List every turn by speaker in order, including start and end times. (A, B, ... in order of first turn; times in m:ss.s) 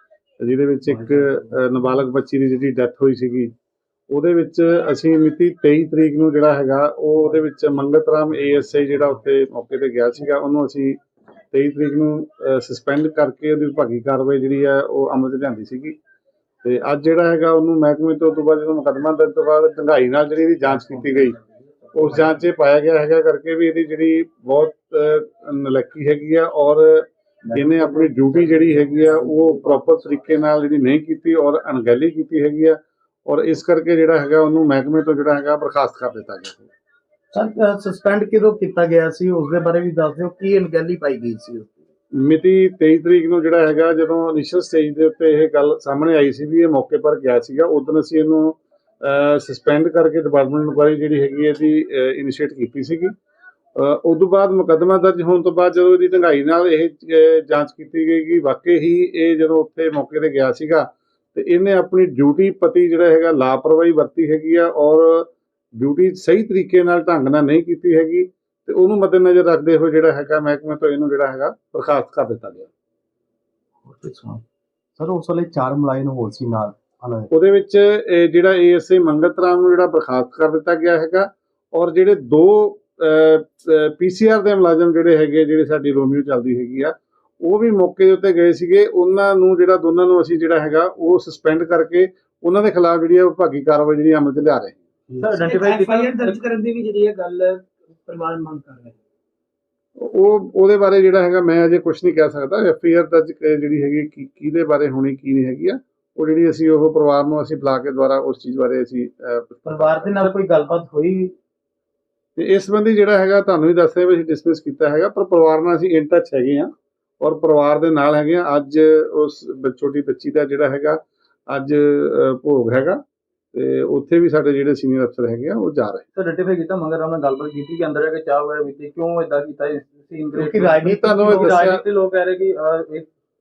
0:00.4-0:03.5 A
0:04.1-0:11.0 A
0:11.5-0:16.0 A
0:16.6-0:21.4 A
0:21.2-0:22.2 B
0:21.9-0:36.7 A
0:27.4-0:30.0 B
0:37.3-0:41.8 B
0:42.2-0:53.1 A
0:53.8-1:12.7 A
1:13.8-1:14.4 B
1:15.0-1:17.3 B
1:17.3-1:34.8 A
1:35.1-1:35.4 B
1:35.2-1:36.4 C
1:35.4-1:38.9 D
1:40.0-1:50.3 A
1:49.7-1:51.3 B
1:52.4-1:56.7 A
1:57.2-2:03.0 A
2:03.5-2:06.0 A
2:06.2-2:13.1 C
2:10.3-2:11.7 B
2:11.0-2:11.8 A